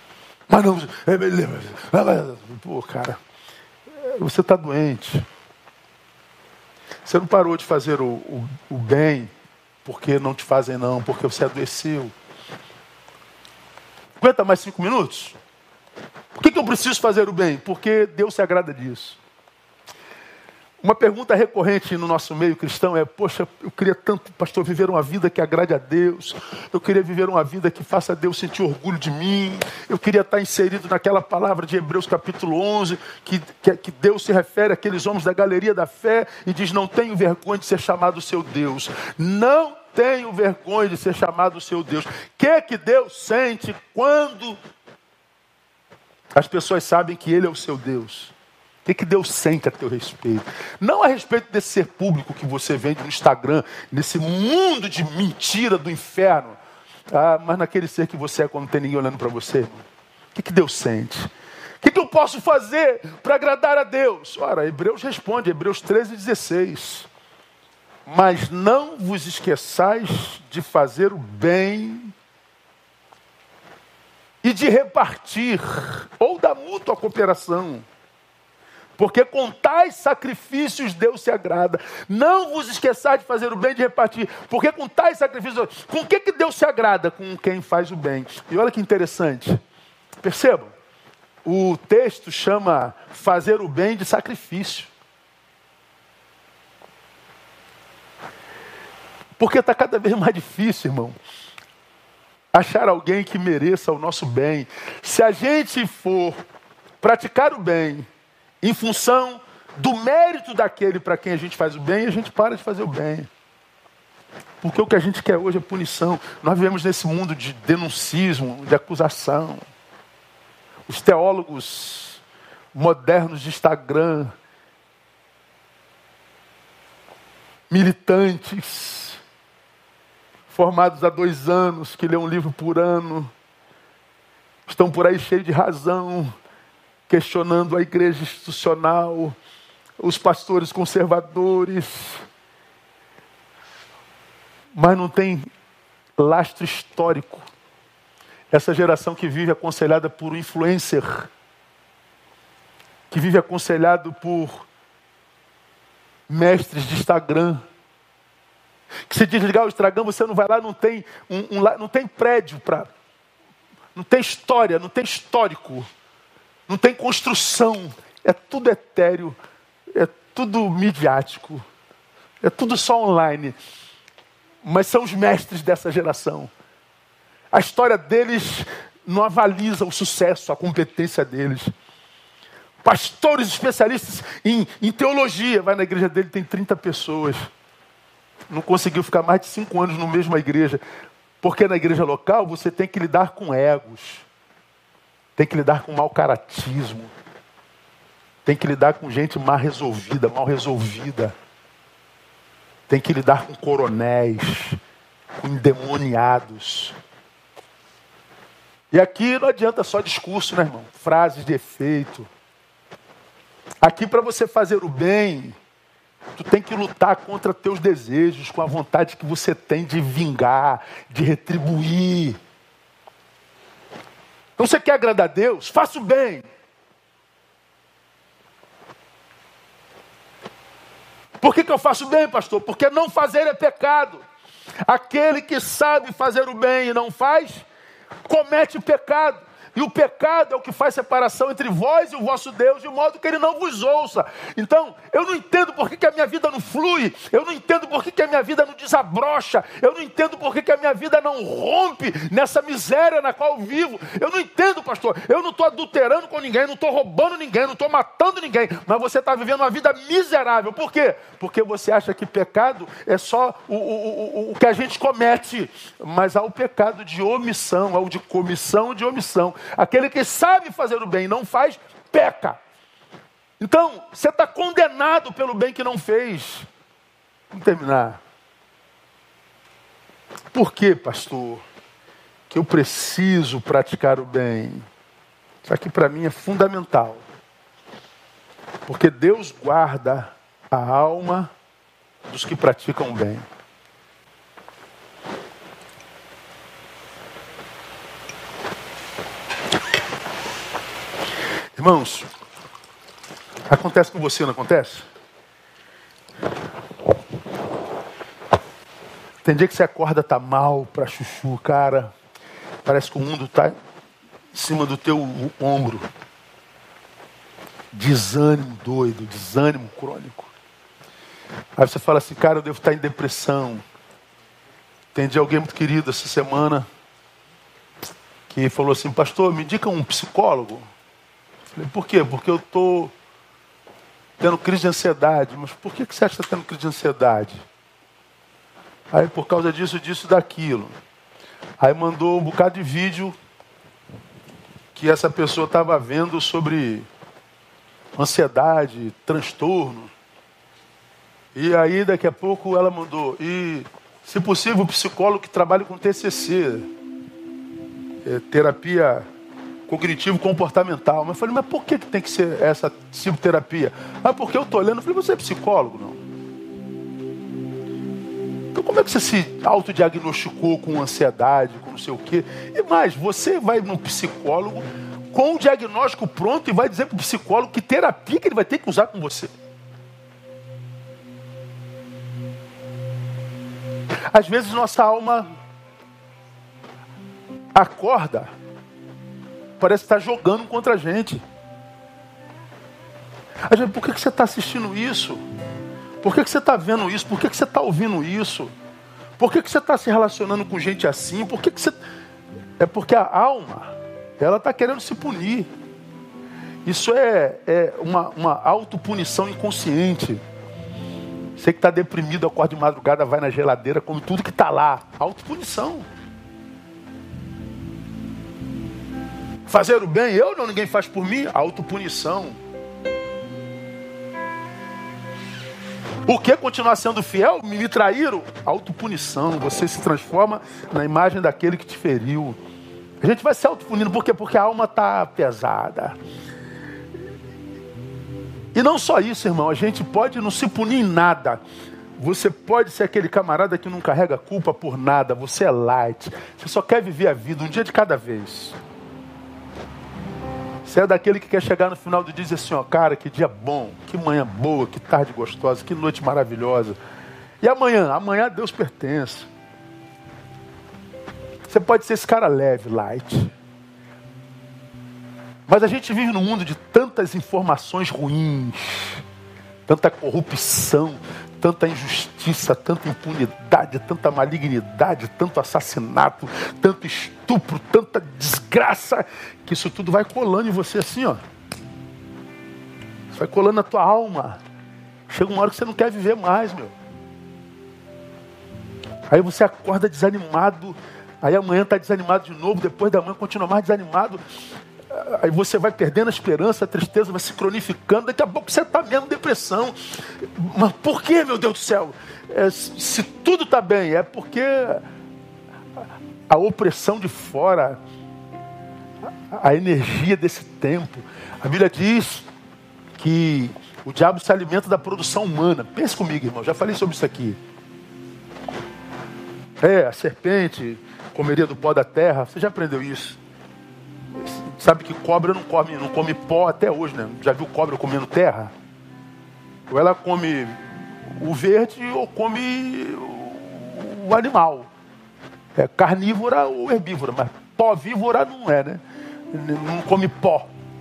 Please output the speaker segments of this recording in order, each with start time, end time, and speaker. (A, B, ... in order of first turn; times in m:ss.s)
0:00.5-0:03.2 A
0:04.0-0:05.2 A
0:07.0-0:09.3 A
0:09.8-0:12.1 A
0:14.2-0:15.4 A
0:16.4-0:19.2 A
0:20.8-0:44.6 A
0:46.3-0:48.3 A
0:48.8-0:56.6 A
0:57.1-1:01.3 A
1:01.8-1:07.1 A
1:08.0-1:12.1 A
1:14.4-1:17.8 A
1:19.0-1:29.6 A
1:30.2-1:30.7 A
1:31.4-1:34.9 A
1:39.4-1:41.2 A
1:42.5-1:46.4 A
1:47.0-1:48.1 A
1:48.6-1:53.3 A
1:54.6-1:59.6 A
2:00.9-2:02.2 A
2:02.7-2:04.3 A
2:07.7-2:09.2 A
2:10.5-2:13.3 A
2:14.7-2:16.3 A
2:17.1-2:19.4 A
2:20.0-2:22.2 A
2:24.7-2:25.5 A
2:26.2-2:27.4 A
2:28.5-2:31.3 A
2:33.1-2:34.7 A
2:36.3-2:37.6 A
2:39.1-2:42.9 A
2:43.9-2:45.9 A
2:46.7-2:49.4 A
2:49.9-2:51.6 A
2:52.4-2:53.6 A
2:54.6-2:56.5 A
2:57.5-3:01.7 A
3:02.8-3:07.5 A
3:08.5-3:10.8 A
3:11.4-3:14.2 A
3:15.4-3:17.1 A
3:18.4-3:21.3 A
3:22.9-3:24.8 A
3:25.4-3:27.0 A
3:28.9-3:32.3 A
3:33.8-3:35.6 A
3:36.4-3:42.4 A
3:44.6-3:46.4 A
3:51.4-3:54.2 A
3:54.8-3:57.6 A
3:58.2-4:32.6 A
4:33.6-4:36.7 A
4:37.5-4:38.2 A
4:40.5-4:41.6 A
4:42.5-4:44.8 A
4:45.6-4:47.2 A
4:48.8-4:51.5 A
4:52.3-4:53.4 A
5:01.8-5:02.3 A
5:03.7-5:05.0 A
5:09.4-5:12.1 A
5:12.8-5:13.8 A
5:14.5-5:16.1 A
5:17.9-5:20.5 A
5:21.8-5:23.8 A
5:25.1-5:26.9 A
5:28.5-5:30.9 A
5:31.7-5:33.1 A
5:34.4-5:37.6 A
5:39.1-5:40.9 A
5:41.8-5:43.4 A
5:44.9-5:47.0 A
5:48.2-5:50.1 A
5:51.5-5:56.9 A
5:58.2-5:59.3 A
5:59.9-6:06.2 A
6:08.7-6:19.5 A
6:24.3-6:25.5 A
6:27.7-6:28.5 A
6:29.8-6:31.4 A
6:33.7-6:35.4 A
6:36.2-6:38.7 A
6:39.4-6:42.0 A
6:42.8-6:45.7 A
6:46.8-6:50.4 A
6:51.6-6:56.0 A
6:59.7-7:02.6 A
7:06.2-7:12.6 A
7:13.2-7:16.2 A
7:18.7-7:21.6 A
7:22.2-7:28.8 A
7:30.8-7:37.0 A
7:37.6-7:39.5 A
7:41.7-7:43.5 A
7:45.7-7:49.2 A
7:49.9-8:01.4 A
8:03.3-8:04.6 A
8:05.3-8:06.9 A
8:09.3-8:14.4 A
8:15.1-8:25.0 A
8:26.5-8:28.0 A
8:29.5-8:32.5 A
8:33.2-8:37.6 A
8:39.8-8:43.4 A
8:44.4-8:48.7 A
8:49.9-8:54.9 A
8:55.7-9:00.7 A